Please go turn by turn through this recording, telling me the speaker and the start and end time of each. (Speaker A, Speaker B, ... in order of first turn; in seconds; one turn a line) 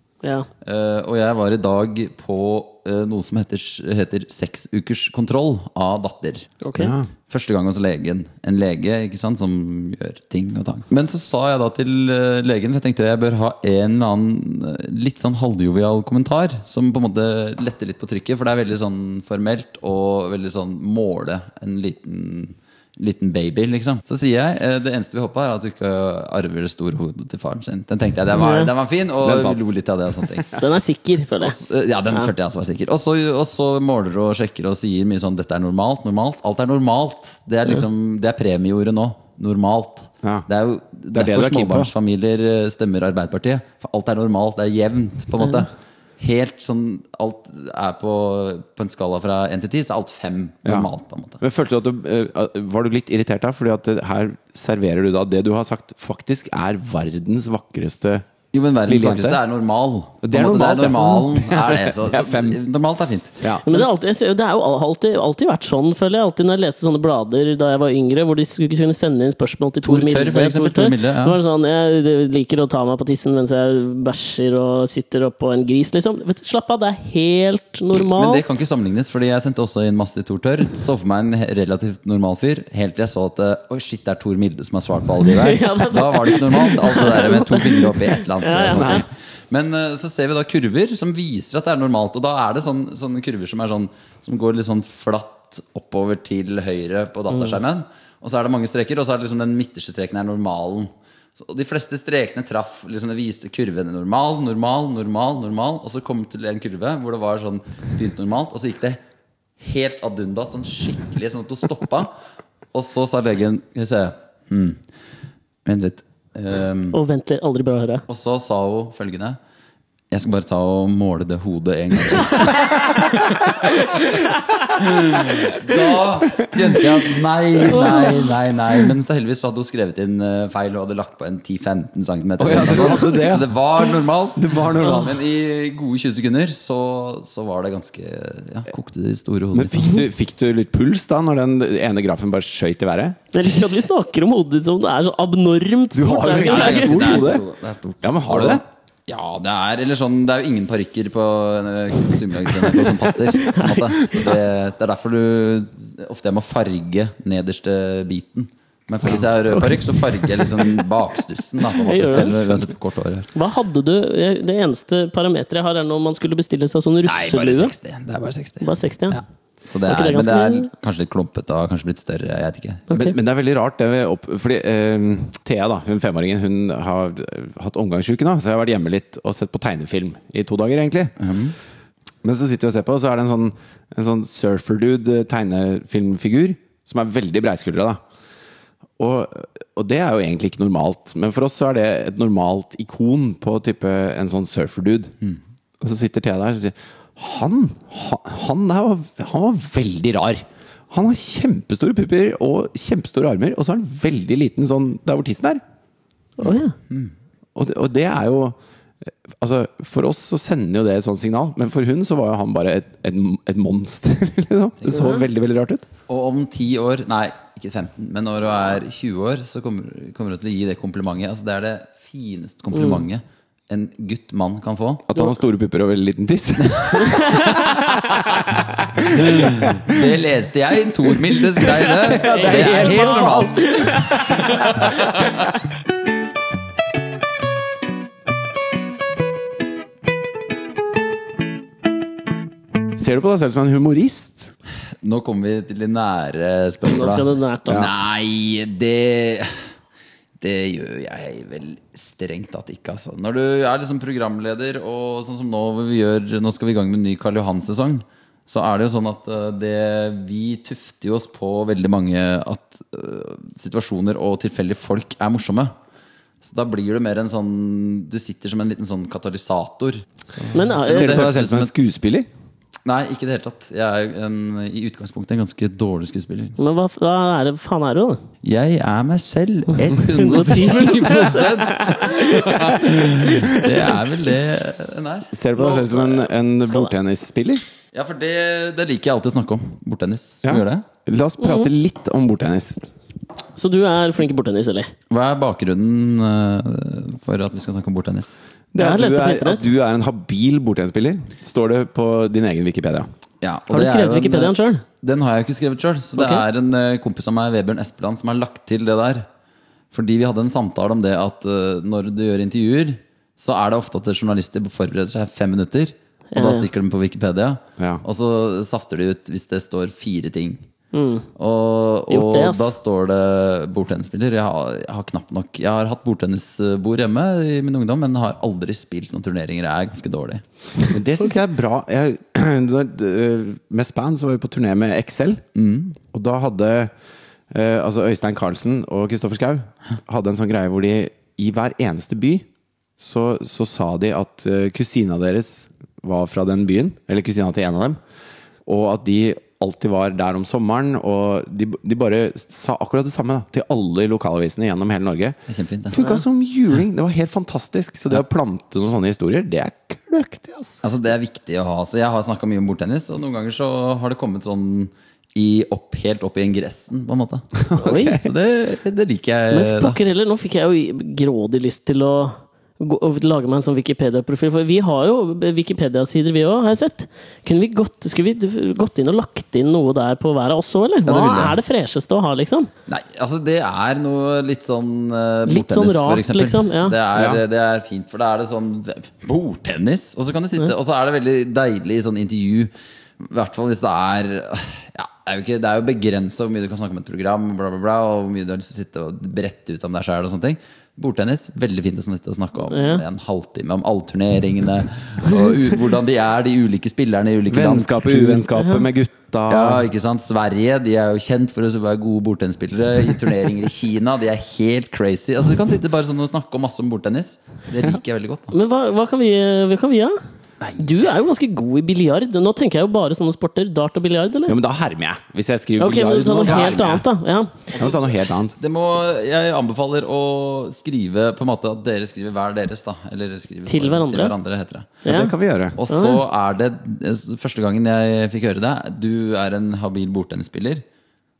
Speaker A: 0.6-6.5
Speaker B: 6.6-6.9
Speaker C: 6.8-7.1
Speaker A: 7.3-30.5
Speaker B: 28.3-28.7
Speaker C: 29.2-29.6
Speaker B: 30.6-31.6
Speaker A: 31.4-51.4
Speaker C: 41.1-41.9
Speaker C: 50.6-58.2
Speaker A: 58.5-63.9
Speaker C: 58.9-59.4
Speaker C: 60.2-62.6
Speaker C: 63.4-63.6
Speaker B: 63.6-78.5
Speaker A: 69.8-71.4
Speaker A: 77.9-109.0
Speaker B: 85.2-89.0
Speaker C: 88.7-89.0
Speaker B: 97.3-97.6
Speaker A: 109.6-112.1
Speaker A: 112.7-114.8
Speaker A: 115.6-117.0
Speaker B: 116.9-118.0
Speaker A: 118.1-119.4
Speaker A: 120.1-124.1
Speaker B: 122.3-122.7
Speaker B: 123.6-124.4
Speaker A: 124.7-140.0
Speaker C: 126.3-127.0
Speaker B: 127.7-128.3
Speaker C: 132.4-133.5
Speaker C: 134.3-135.2
Speaker C: 139.5-143.2
Speaker B: 143.3-147.3
Speaker C: 145.9-147.4
Speaker A: 146.2-163.3
Speaker C: 148.0-148.6
Speaker C: 152.7-153.0
Speaker B: 153.4-153.8
Speaker C: 159.0-159.8
Speaker B: 161.8-162.4
Speaker C: 162.1-162.7
Speaker B: 163.3-167.7
Speaker A: 167.0-172.9
Speaker B: 168.6-169.2
Speaker B: 169.8-170.7
Speaker B: 172.9-173.2
Speaker C: 172.9-181.1
Speaker A: 181.2-181.5
Speaker C: 182.2-188.0
Speaker C: 189.0-195.1
Speaker C: 195.8-205.6
Speaker B: 206.4-206.7
Speaker A: 206.4-207.1
Speaker C: 207.5-208.6
Speaker C: 209.1-215.9
Speaker A: 214.8-215.1
Speaker B: 214.9-215.2
Speaker A: 216.1-225.1
Speaker B: 222.7-223.0
Speaker C: 225.1-230.1
Speaker A: 226.6-228.4
Speaker B: 227.0-227.7
Speaker A: 229.1-235.3
Speaker C: 231.1-235.4
Speaker B: 232.2-235.1
Speaker C: 242.9-244.5
Speaker A: 245.0-249.6
Speaker B: 246.8-247.9
Speaker C: 247.7-247.9
Speaker A: 250.4-265.7
Speaker A: 266.4-271.9
Speaker B: 270.5-271.3
Speaker C: 270.8-272.3
Speaker A: 272.8-276.6
Speaker B: 276.6-278.2
Speaker A: 278.4-286.2
Speaker B: 279.9-283.9
Speaker C: 285.3-287.6
Speaker A: 287.9-290.9
Speaker C: 290.4-292.8
Speaker B: 291.4-291.7
Speaker B: 293.6-294.9
Speaker A: 295.1-298.4
Speaker C: 298.7-303.1
Speaker B: 298.8-299.6
Speaker A: 303.4-309.2
Speaker B: 303.7-304.8
Speaker B: 306.2-306.4
Speaker A: 309.9-320.6
Speaker B: 316.3-316.7
Speaker C: 317.8-318.0
Speaker B: 320.9-321.2
Speaker A: 321.4-330.4
Speaker B: 322.1-322.7
Speaker C: 330.9-335.4
Speaker A: 335.5-336.0
Speaker C: 336.1-336.9
Speaker C: 337.5-342.4
Speaker C: 343.0-348.0
Speaker C: 348.6-355.4
Speaker A: 355.5-356.2
Speaker C: 355.9-360.8
Speaker A: 360.8-370.0
Speaker C: 367.6-368.3
Speaker B: 367.8-368.2
Speaker B: 369.5-382.7
Speaker A: 381.1-381.6
Speaker A: 382.9-408.5
Speaker B: 385.4-386.9
Speaker C: 387.1-387.4
Speaker B: 402.7-403.0
Speaker C: 407.5-409.9
Speaker B: 408.6-408.8
Speaker A: 409.5-418.5
Speaker B: 418.5-420.2
Speaker A: 420.6-420.9
Speaker B: 420.8-424.6
Speaker C: 424.5-427.0
Speaker B: 425.8-427.6
Speaker A: 426.3-427.0
Speaker A: 427.7-435.1
Speaker C: 427.7-428.6
Speaker B: 433.7-434.3
Speaker B: 435.0-435.3
Speaker C: 435.1-435.8
Speaker A: 435.8-440.8
Speaker B: 435.9-436.2